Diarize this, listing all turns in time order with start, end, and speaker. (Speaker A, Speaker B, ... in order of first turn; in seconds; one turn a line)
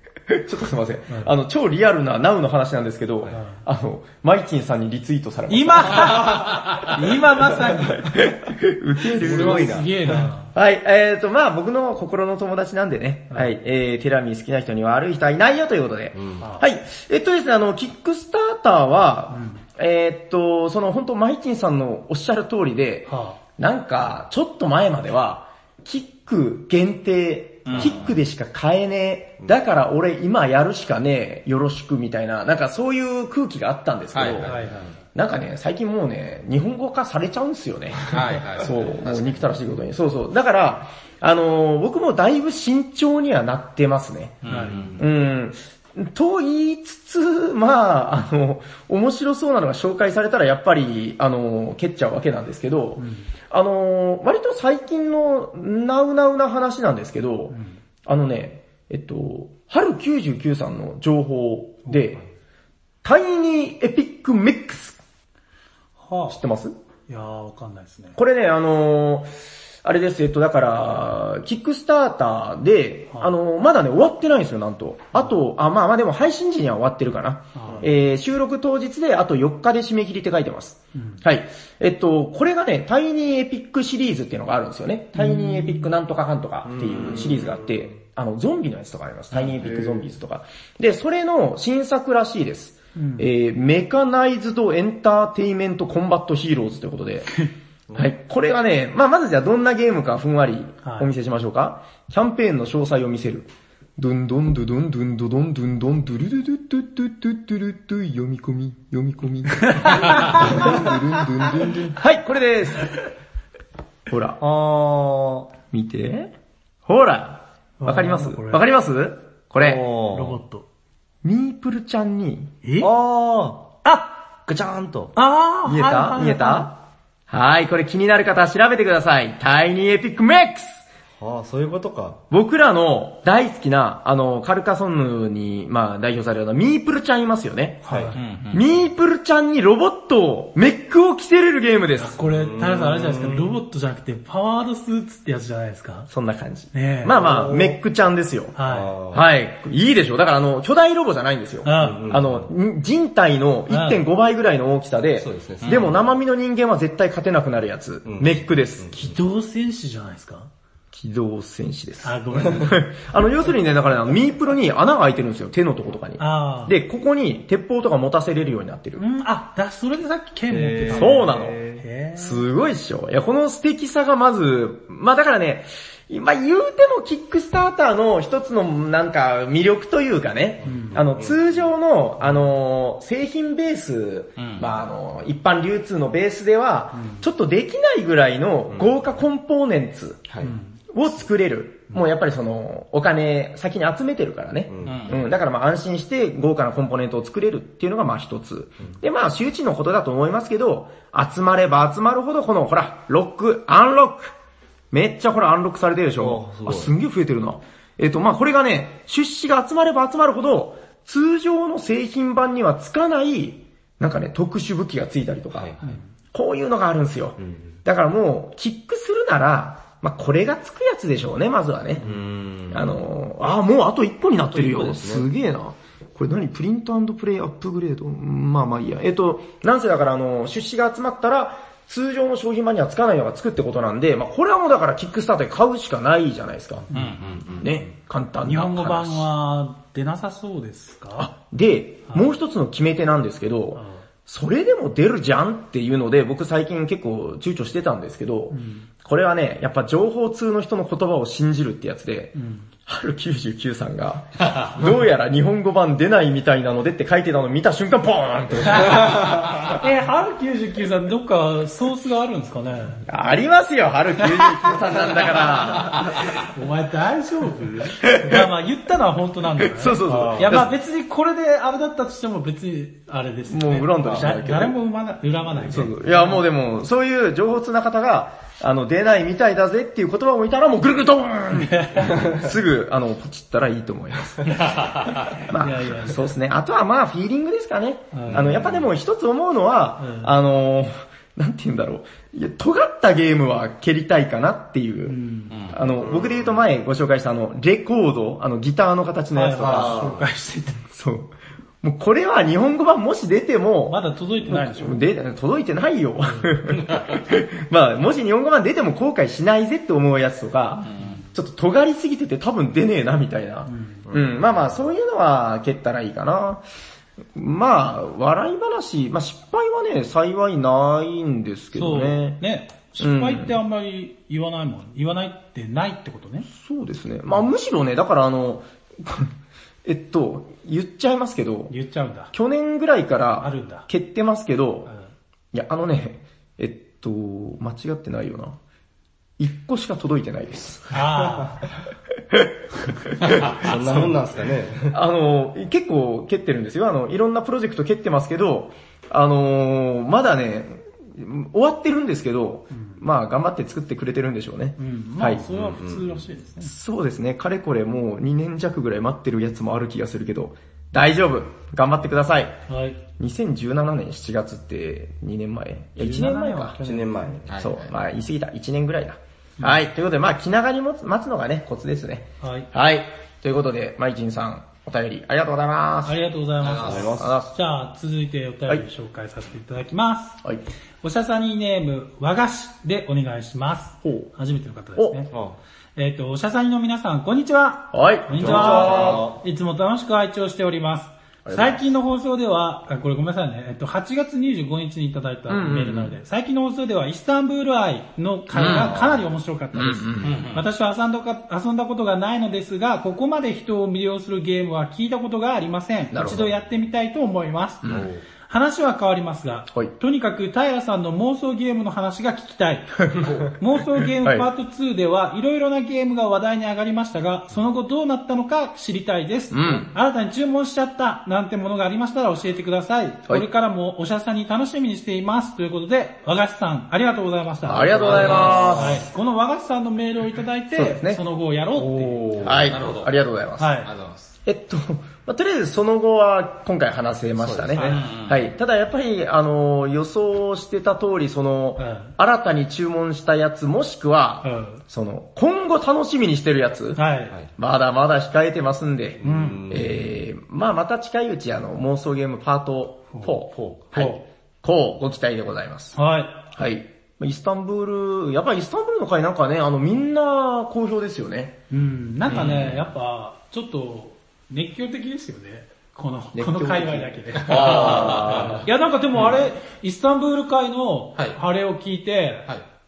Speaker A: 0.3-6.7
Speaker B: 3.3-3.6
Speaker B: 5.5-8.2
Speaker C: 6.2-6.6
Speaker A: 8.0-9.8
Speaker C: 9.2-10.3
Speaker B: 9.2-10.5
Speaker A: 10.5-34.6
Speaker C: 16.1-16.5
Speaker B: 16.4-16.6
Speaker B: 19.3-19.6
Speaker B: 23.1-23.4
Speaker D: 27.6-28.1
Speaker D: 34.1-34.7
Speaker B: 34.5-34.9
Speaker A: 35.1-44.4
Speaker D: 38.0-39.4
Speaker D: 44.4-45.0
Speaker B: 44.5-44.9
Speaker A: 45.0-62.2
Speaker B: 53.0-53.3
Speaker B: 57.5-57.8
Speaker B: 61.9-62.2
Speaker A: 63.0-65.0
Speaker B: 66.0-66.4
Speaker A: 66.3-66.7
Speaker B: 67.1-68.2
Speaker A: 68.2-97.4
Speaker B: 77.5-77.9
Speaker B: 80.9-81.2
Speaker B: 85.1-85.9
Speaker C: 86.6-87.9
Speaker C: 89.3-90.0
Speaker B: 92.9-93.3
Speaker C: 97.9-98.1
Speaker A: 98.0-113.0
Speaker B: 100.8-101.1
Speaker B: 109.6-110.9
Speaker C: 110.4-111.0
Speaker A: 114.1-114.4
Speaker C: 114.4-115.5
Speaker A: 115.7-116.3
Speaker A: 116.8-119.8
Speaker B: 117.8-118.6
Speaker C: 119.6-120.4
Speaker B: 120.1-120.7
Speaker A: 121.2-122.5
Speaker B: 122.6-122.9
Speaker C: 122.8-123.7
Speaker B: 123.8-124.2
Speaker C: 124.5-125.1
Speaker B: 125.1-126.7
Speaker A: 125.6-126.8
Speaker A: 127.3-130.8
Speaker C: 131.2-132.2
Speaker A: 132.3-142.2
Speaker B: 137.8-138.2
Speaker C: 137.9-138.1
Speaker D: 138.1-138.7
Speaker B: 141.9-146.1
Speaker C: 142.2-143.6
Speaker A: 146.1-148.6
Speaker B: 146.7-147.2
Speaker C: 147.1-147.8
Speaker B: 148.5-148.9
Speaker C: 148.6-149.2
Speaker A: 149.1-159.0
Speaker B: 151.6-152.0
Speaker C: 151.7-152.5
Speaker B: 153.7-154.0
Speaker C: 155.2-156.2
Speaker D: 155.6-155.9
Speaker C: 158.1-159.1
Speaker B: 159.0-160.5
Speaker A: 160.9-169.0
Speaker B: 162.0-162.8
Speaker B: 166.2-166.7
Speaker B: 169.0-172.4
Speaker C: 170.5-171.8
Speaker A: 170.9-171.6
Speaker A: 172.2-190.2
Speaker C: 180.6-181.7
Speaker B: 180.6-181.0
Speaker D: 184.4-184.8
Speaker B: 186.9-187.2
Speaker C: 188.7-189.0
Speaker C: 190.3-190.5
Speaker B: 190.4-190.8
Speaker A: 190.9-204.3
Speaker C: 194.7-195.2
Speaker D: 194.8-195.2
Speaker A: 204.9-215.7
Speaker C: 206.2-206.9
Speaker C: 215.5-216.0
Speaker A: 216.3-222.1
Speaker C: 217.4-217.8
Speaker C: 222.0-223.0
Speaker A: 222.7-236.9
Speaker C: 224.5-225.3
Speaker B: 236.9-237.2
Speaker D: 236.9-237.6
Speaker C: 237.2-237.7
Speaker A: 237.6-239.3
Speaker B: 238.4-241.3
Speaker A: 241.2-259.7
Speaker B: 243.8-244.1
Speaker B: 248.5-248.9
Speaker B: 252.3-252.7
Speaker B: 258.7-259.0
Speaker C: 259.1-259.3
Speaker B: 259.6-263.0
Speaker A: 263.1-266.1
Speaker B: 264.2-264.6
Speaker B: 266.5-276.4
Speaker A: 268.0-268.5
Speaker A: 269.6-270.7
Speaker C: 270.0-270.6
Speaker A: 273.5-274.8
Speaker C: 274.0-274.3
Speaker A: 275.6-300.1
Speaker B: 281.5-282.3
Speaker D: 284.8-285.3
Speaker B: 285.5-286.2
Speaker B: 288.1-288.5
Speaker C: 288.3-288.9
Speaker B: 290.0-290.3
Speaker B: 295.1-295.6
Speaker D: 295.5-295.8
Speaker C: 296.0-296.6
Speaker B: 299.3-300.9
Speaker C: 299.6-300.2
Speaker A: 300.9-316.6
Speaker B: 303.9-305.0
Speaker D: 306.7-307.2
Speaker D: 310.8-311.2
Speaker B: 313.7-314.0
Speaker C: 314.1-314.7
Speaker A: 317.3-322.4
Speaker B: 321.8-326.5
Speaker A: 323.0-323.6
Speaker A: 326.5-329.3
Speaker A: 329.8-331.7
Speaker B: 331.7-332.3
Speaker A: 332.3-334.9
Speaker B: 333.4-333.9
Speaker A: 335.5-338.6
Speaker A: 339.4-341.0
Speaker B: 340.9-341.6
Speaker A: 342.3-343.6
Speaker D: 343.2-343.9
Speaker C: 343.3-344.9
Speaker A: 344.9-355.5
Speaker B: 352.7-353.0
Speaker B: 354.8-356.7
Speaker C: 355.5-356.1
Speaker A: 356.6-362.6
Speaker B: 362.7-363.0
Speaker A: 363.2-366.8
Speaker B: 366.0-367.3
Speaker C: 366.5-367.6
Speaker D: 367.5-367.9
Speaker A: 367.6-376.2
Speaker B: 369.6-369.9
Speaker B: 372.4-372.7
Speaker B: 376.0-380.4
Speaker D: 376.6-377.2
Speaker C: 376.8-377.3
Speaker A: 377.1-377.5
Speaker B: 381.0-385.3
Speaker A: 384.0-384.3
Speaker A: 384.9-385.2
Speaker C: 385.3-385.6
Speaker B: 385.9-407.9
Speaker A: 387.9-389.3
Speaker C: 388.4-389.4
Speaker A: 391.4-391.8
Speaker A: 395.5-396.1
Speaker A: 398.5-399.0
Speaker C: 398.6-399.3
Speaker A: 399.7-400.4
Speaker D: 400.2-400.7
Speaker A: 406.1-406.5
Speaker A: 407.8-408.1
Speaker C: 407.9-408.2
Speaker B: 408.5-413.0
Speaker A: 413.1-413.4
Speaker C: 413.1-413.5
Speaker B: 413.6-432.4
Speaker A: 414.2-414.5
Speaker A: 419.5-419.9
Speaker A: 427.6-429.1
Speaker C: 427.7-429.0
Speaker D: 428.0-428.8
Speaker A: 430.7-431.2
Speaker C: 431.8-432.7
Speaker A: 432.4-433.8
Speaker D: 432.4-433.2
Speaker B: 433.6-433.9
Speaker D: 433.8-434.3
Speaker A: 434.4-456.0
Speaker C: 437.4-438.1
Speaker D: 437.8-438.5
Speaker B: 441.8-442.1
Speaker B: 444.4-444.8
Speaker B: 446.9-447.3
Speaker C: 449.2-450.0
Speaker B: 449.2-449.8
Speaker C: 453.5-454.1
Speaker B: 453.9-454.2
Speaker B: 455.9-456.5
Speaker A: 456.5-461.6
Speaker B: 461.7-472.5
Speaker D: 462.3-462.8
Speaker A: 466.3-468.6
Speaker D: 467.4-468.6
Speaker C: 467.5-468.7